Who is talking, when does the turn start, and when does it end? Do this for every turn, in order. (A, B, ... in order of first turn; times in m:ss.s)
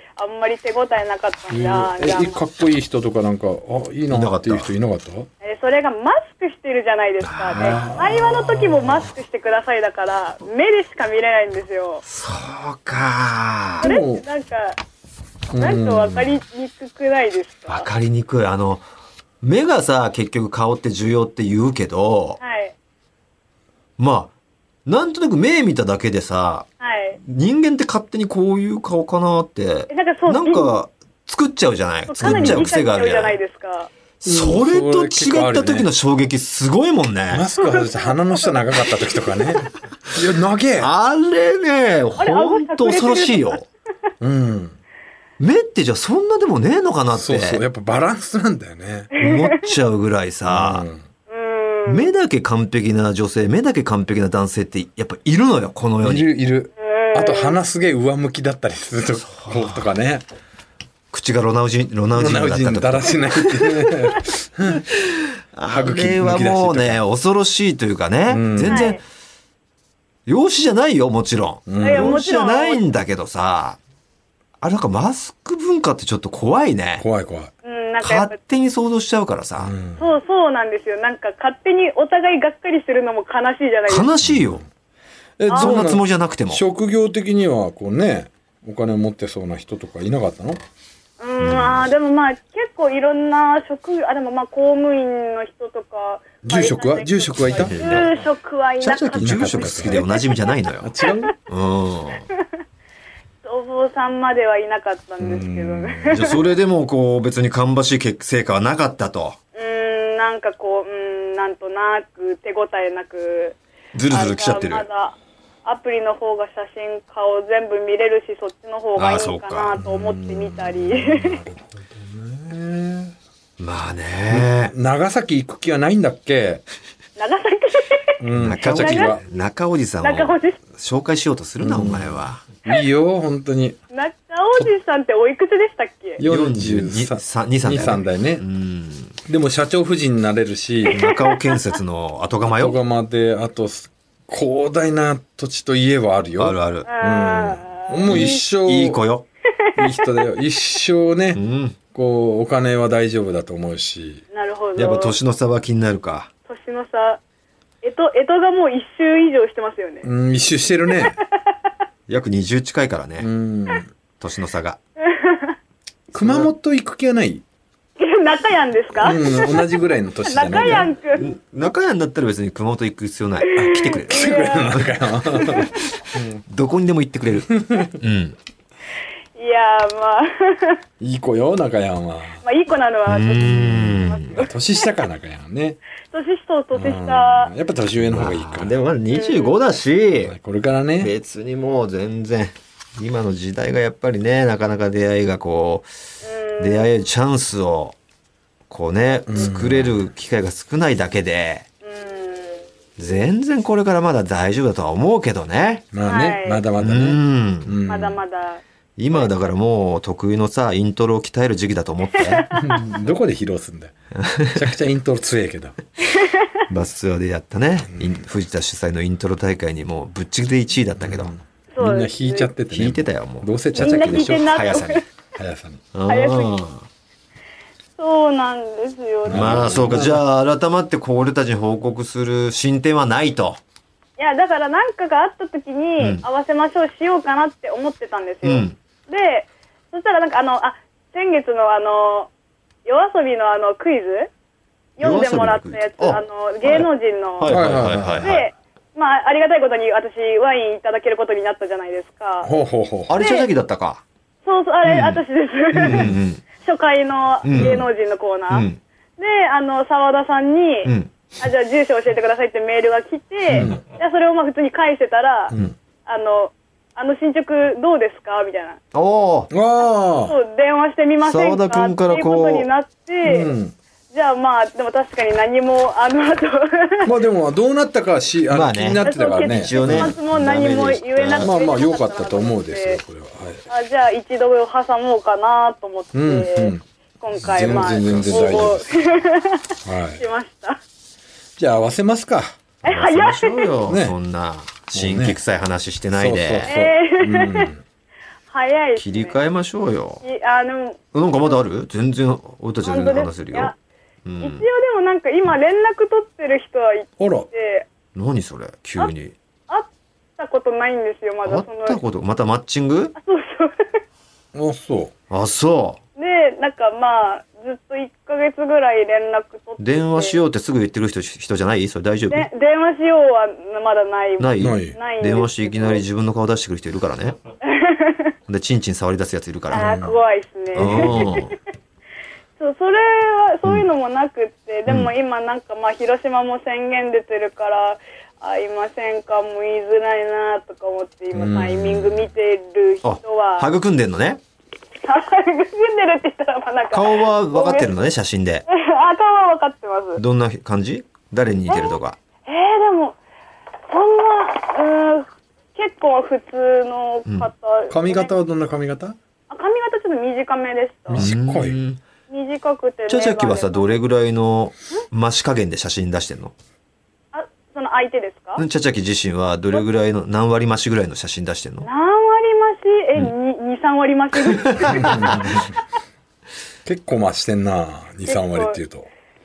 0:00.2-0:02.4 A
0:01.5-0:05.3 B
0:04.1-0:04.7 C
0:05.4-0:12.0 A
0:07.2-0:07.9 C
0:07.6-0:09.1 B
0:12.1-0:13.9 C
0:13.8-0:14.2 B
0:13.8-0:14.8 A
0:15.5-0:16.4 B
0:15.6-0:17.9 A
0:17.7-0:18.8 C
0:19.4-0:22.4 C
0:22.4-0:22.7 A
0:24.0-0:24.3 C
0:24.9-0:26.7 C
0:26.8-0:27.2 A
0:27.2-0:33.4 C
0:29.9-0:30.7 A
0:32.1-0:33.9 A
0:32.2-0:32.7 B
0:34.2-0:37.5 C
0:34.2-0:35.9 B
0:37.3-0:40.9 B
0:37.6-0:38.6 A
0:40.8-0:43.7 C
0:42.2-0:43.6 A
0:44.2-0:44.8 B
0:45.4-0:47.6 C
0:47.1-0:49.1 B
0:49.2-0:49.7 A
0:49.2-0:50.9 C
0:50.5-0:51.0 B
0:51.3-0:52.1 A
0:51.9-0:56.3 C
0:56.0-1:00.2 B
0:56.8-0:57.6 A
0:59.3-0:59.8 C
1:01.1-1:04.1 C
1:02.2-1:04.9 B
1:04.7-1:09.0 C
1:05.7-1:07.0 B
1:08.3-1:08.9 B
1:08.7-1:09.0 A
1:10.3-1:13.8 C
1:11.7-1:12.2 B
1:11.8-1:12.8 A
1:14.6-1:17.1 C
1:17.0-1:17.5 B
1:17.6-1:18.4 A
1:18.0-1:19.7 C
1:19.6-1:20.1 B
1:20.0-1:24.1 A
1:23.9-1:24.6 C
1:24.2-1:24.6 B
1:25.4-1:30.6 B
1:25.5-1:25.9 A
1:25.5-1:26.6 C
1:31.2-1:41.3 A
1:31.4-1:31.9 C
1:36.4-1:38.1 B
1:37.6-1:38.1 C
1:38.8-1:40.9 C
1:39.2-1:40.0 B
1:40.8-1:41.3 B
1:41.5-1:42.3 C
1:43.4-1:46.4 A
1:45.2-1:46.4 B
1:46.1-1:49.4 C
1:49.6-1:53.6 A
1:53.9-1:54.9 C
1:54.1-2:01.4 A
1:59.0-1:59.8 C
1:59.8-2:03.1 B
2:03.6-2:04.7 C
2:04.3-2:06.6 B
2:07.2-2:09.2 A
2:08.2-2:09.2 B
2:08.3-2:12.4 C
2:10.0-2:10.6 A
2:11.6-2:13.8 B
2:13.9-2:16.2 A
2:16.2-2:18.4 B
2:16.2-2:19.2 C
2:19.3-2:21.0 B
2:20.9-2:21.8 A
2:20.9-2:22.8 C
2:22.5-2:29.0 B
2:26.4-2:26.9 C
2:26.9-2:28.4 A
2:28.1-2:29.3 C
2:29.6-2:30.3 A
2:29.8-2:31.4 B
2:31.3-2:31.8 C
2:31.9-2:34.2 B
2:34.3-2:35.2 A
2:34.8-2:36.3 C
2:36.5-2:37.2 A
2:37.8-2:40.1 A
2:40.0-2:41.2 B
2:40.9-2:41.5 A
2:42.1-2:43.3 C
2:43.2-2:43.9 B
2:44.2-2:44.8 C
2:45.0-2:45.6 A
2:46.1-2:47.4 B
2:46.1-2:46.5 C
2:48.0-2:51.3 A
2:49.0-2:50.9 B
2:51.1-2:55.0 C
2:53.5-2:54.8 A
2:53.6-2:56.4 B
2:55.5-2:55.7 A
2:56.5-2:58.4 C
2:57.5-2:57.9 B
2:59.4-3:00.8 A
3:01.0-3:02.4 B
3:02.4-3:04.9 A
3:03.1-3:04.3 C
3:04.4-3:05.8 B
3:06.1-3:07.5 A
3:06.7-3:08.8 B
3:08.1-3:10.4 C
3:09.1-3:09.6 A
3:10.2-3:11.1 B
3:11.0-3:15.9 C
3:16.2-3:17.0 A
3:16.6-3:18.0 C
3:18.7-3:21.7 C
3:19.3-3:20.0 B
3:21.8-3:22.6 A
3:23.0-3:25.9 C
3:25.9-3:28.2 B
3:26.1-3:26.6 A
3:26.8-3:27.8 C
3:27.9-3:28.6 A
3:29.0-3:32.5 C
3:32.1-3:32.8 A
3:32.5-3:33.9 B
3:34.1-3:34.7 C
3:34.5-3:35.8 B
3:36.1-3:36.5 A
3:36.7-3:41.3 C
3:41.0-3:45.8 B
3:41.7-3:42.5 A
3:42.7-3:45.0 C
3:43.8-3:45.0 A
3:45.9-3:46.9 C
3:46.1-3:46.6 A
3:48.0-3:49.9 A
3:49.2-3:50.2 B
3:49.3-3:53.6 C
3:54.2-4:02.3 A
3:56.0-3:56.2 C
3:58.4-3:58.8 C
4:02.9-4:04.3 A
4:05.0-4:07.6 A
4:05.0-4:08.4 C
4:07.5-4:08.4 B
4:08.2-4:12.5 A
4:12.4-4:13.1 B
4:13.1-4:14.0 C
4:13.2-4:13.5 A
4:14.4-4:18.7 A
4:14.8-4:15.2 C
4:15.7-4:16.4 C
4:15.8-4:16.1 B
4:17.4-4:17.8 C
4:17.5-4:17.9 B
4:18.5-4:18.8 C
4:19.2-4:25.6 A
4:20.8-4:21.1 C
4:23.5-4:23.8 B
4:26.1-4:28.8 A
4:28.9-4:29.5 C
4:29.5-4:30.4 B
4:29.8-4:33.5 A
4:31.2-4:32.7 C
4:33.2-4:33.8 B
4:34.1-4:37.1 A
4:37.0-4:40.2 B
4:38.5-4:41.5 C
4:39.0-4:43.0 A
4:41.4-4:43.6 B
4:43.7-4:50.8 A
4:46.1-4:46.8 B
4:47.4-4:49.0 B
4:48.0-4:48.6 C
4:49.8-4:50.2 B
4:51.6-4:52.6 B
4:52.8-4:53.7 A
4:52.8-4:56.7 C
4:53.9-4:54.2 B
4:54.9-4:55.4 B
4:56.1-4:57.8 B
4:56.7-4:57.7 A
4:58.5-4:59.4 A
4:59.0-5:00.2 C
5:00.2-5:01.6 A
5:01.1-5:03.7 C
5:02.8-5:03.8 A
5:04.2-5:04.7 C
5:04.4-5:07.9 A
5:07.2-5:07.5 B
5:08.2-5:09.3 C
5:09.7-5:12.0 A
5:11.4-5:13.2 C
5:13.2-5:14.0 A
5:14.5-5:15.1 B
5:15.3-5:16.0 C
5:16.2-5:20.4 A
5:19.8-5:22.5 C
5:22.3-5:26.0 A
5:24.4-5:27.4 C
5:24.6-5:25.0 B
5:27.6-5:28.3 A
5:28.5-5:30.0 C
5:29.7-5:31.6 A
5:29.8-5:30.2 B
5:30.8-5:31.6 C
5:30.8-5:31.3 B
5:32.6-5:43.7 A
5:41.3-5:42.3 B
5:43.0-5:44.4 C
5:45.0-5:47.9 A
5:46.9-5:48.6 C
5:48.7-5:50.2 A
5:50.2-5:52.2 C
5:51.7-5:53.2 A
5:53.9-5:58.3 A
5:57.9-5:59.2 B
5:59.5-6:01.3 A
6:01.1-6:01.8 B
6:01.2-6:02.0 C
6:02.3-6:04.0 A
6:03.1-6:06.5 C
6:07.3-6:08.6 A
6:08.6-6:11.9 C
6:11.8-6:15.4 A
6:14.5-6:15.4 C
6:14.9-6:15.7 B
6:16.8-6:19.1 B
6:18.3-6:18.8 A